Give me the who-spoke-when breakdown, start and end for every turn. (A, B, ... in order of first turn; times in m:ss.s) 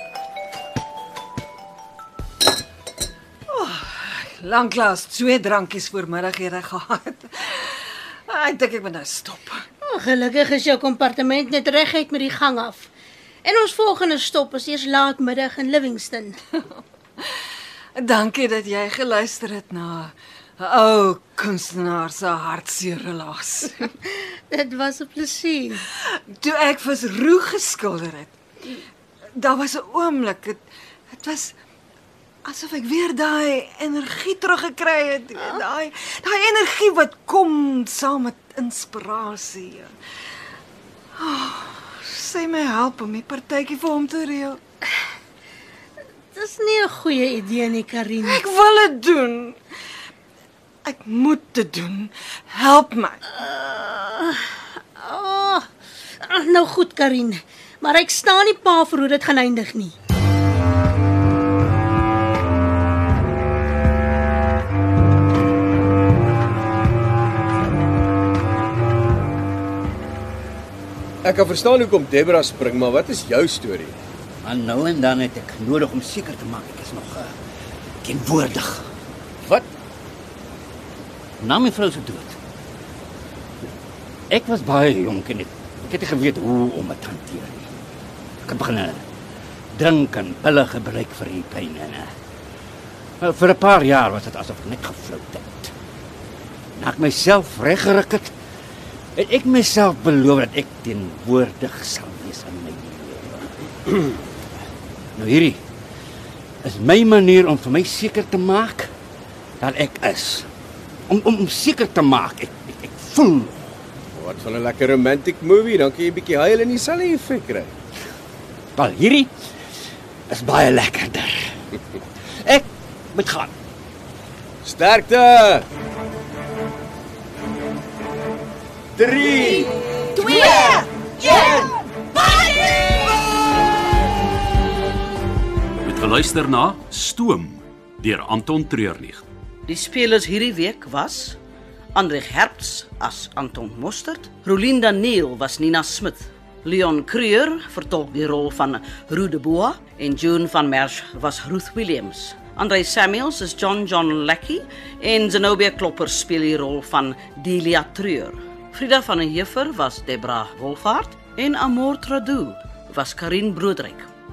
0:03.5-0:09.6 A
0:09.8-0:12.9 B
0:13.4-0:16.4 B
0:18.0-0:23.9 A
0:24.1-0:25.8 B
0:26.0-0:28.4 A
0:29.4-0:31.5 A
0:32.5-0:39.9 A
0:41.2-0:44.6 A
0:46.4-0:48.4 B
0:48.2-0:49.6 A
0:50.8-0:53.3 A
0:53.3-0:55.7 B
0:56.2-1:00.0 B
1:11.2-1:14.0 C
1:14.4-1:17.3 D
1:18.0-1:18.9 D
1:21.4-1:22.4 D
1:24.3-1:27.7 D
1:28.4-1:29.0 D
1:29.7-1:32.1 D
1:33.2-1:35.7 D
1:36.8-1:38.3 D
1:39.2-1:43.5 D
1:45.2-1:45.6 D
1:46.6-1:48.9 D
1:49.6-1:50.5 D
1:51.1-1:53.7 D
1:54.2-1:57.7 C
1:58.8-1:59.3 D
2:00.3-2:01.6 D
2:02.4-2:03.5 D
2:04.6-2:05.7 C
2:09.0-2:09.7 C
2:10.2-2:10.8 A
2:10.4-2:11.8 D
2:15.8-2:19.2 E
2:19.7-2:21.4 F
2:21.9-2:44.1 F